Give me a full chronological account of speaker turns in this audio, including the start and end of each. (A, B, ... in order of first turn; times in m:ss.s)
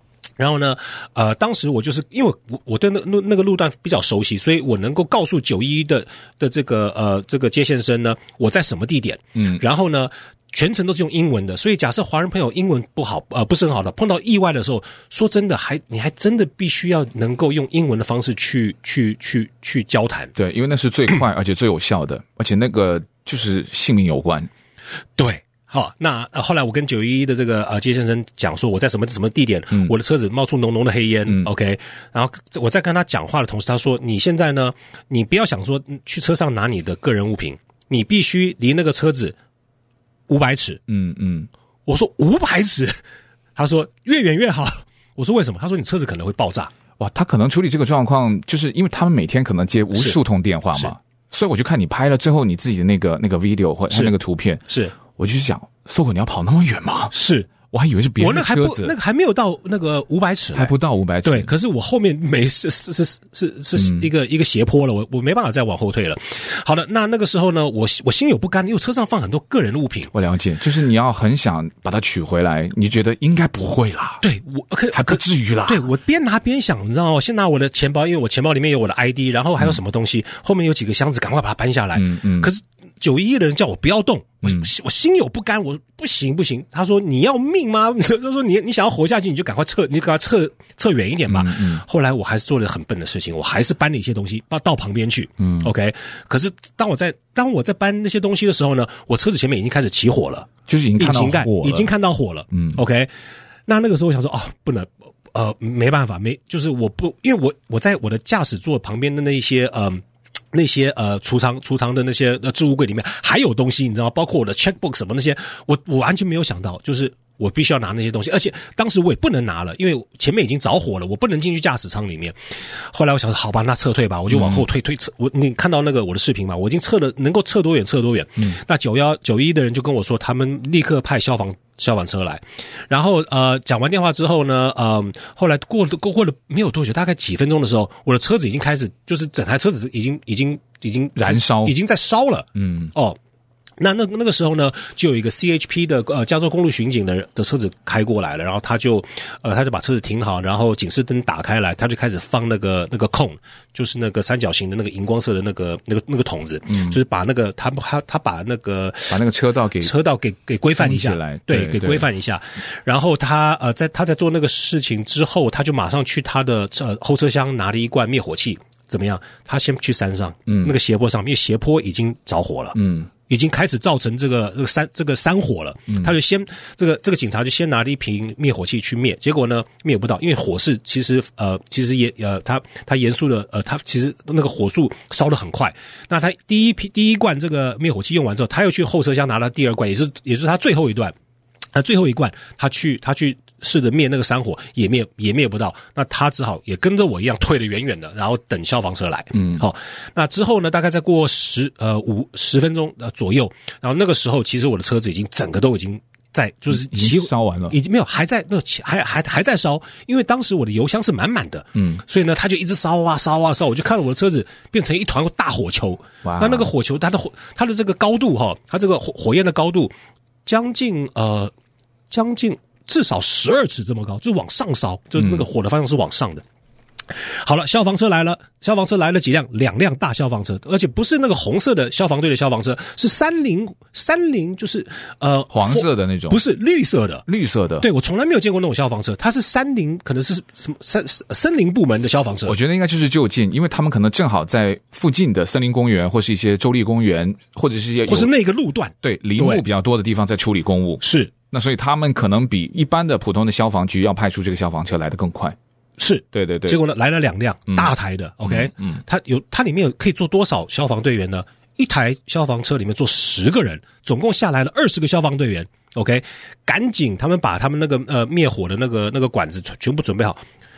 0:00.4-0:20.3 A
0:20.4-0:24.5 B
0:25.2-0:39.4 A
0:40.3-0:40.8 A
0:40.9-0:41.5 B
0:41.8-0:43.0 A
0:43.6-0:46.7 A
0:47.0-0:58.9 B
0:54.7-0:55.0 A
0:57.1-0:57.5 A
0:58.2-1:00.7 A
1:00.5-1:01.5 B
1:01.2-1:10.1 A
1:03.8-1:04.1 B
1:10.1-1:14.2 B
1:14.2-1:43.1 A
1:14.9-1:15.9 B
1:21.9-1:22.5 B
1:31.3-1:31.8 B
1:35.4-1:35.7 B
1:40.7-1:41.9 B
1:42.5-1:42.8 B
1:43.7-2:23.2 A
2:04.3-2:04.6 B
2:21.2-2:21.7 B
2:22.6-2:22.9 B
2:23.8-2:39.2 A
2:36.7-2:37.0 B
2:39.1-2:39.9 B
2:39.8-3:11.1 A
2:40.8-2:42.1 B
2:50.5-2:50.7 B
2:52.7-2:53.1 B
3:11.7-3:39.9 A
3:19.4-3:19.6 B
3:26.7-3:27.8 B
3:31.8-3:32.0 B
3:36.2-3:36.7 B
3:40.4-3:41.5 A
3:42.1-3:46.4 A
3:45.2-3:45.4 B
3:47.1-3:57.2 A
3:55.5-3:56.4 B
3:57.3-3:57.9 B
3:57.8-4:02.5 A
4:02.4-4:08.3 B
4:08.0-4:09.6 A
4:09.0-4:15.6 B
4:11.0-4:11.3 A
4:16.0-4:30.4 A
4:16.3-4:16.8 B
4:17.7-4:19.0 B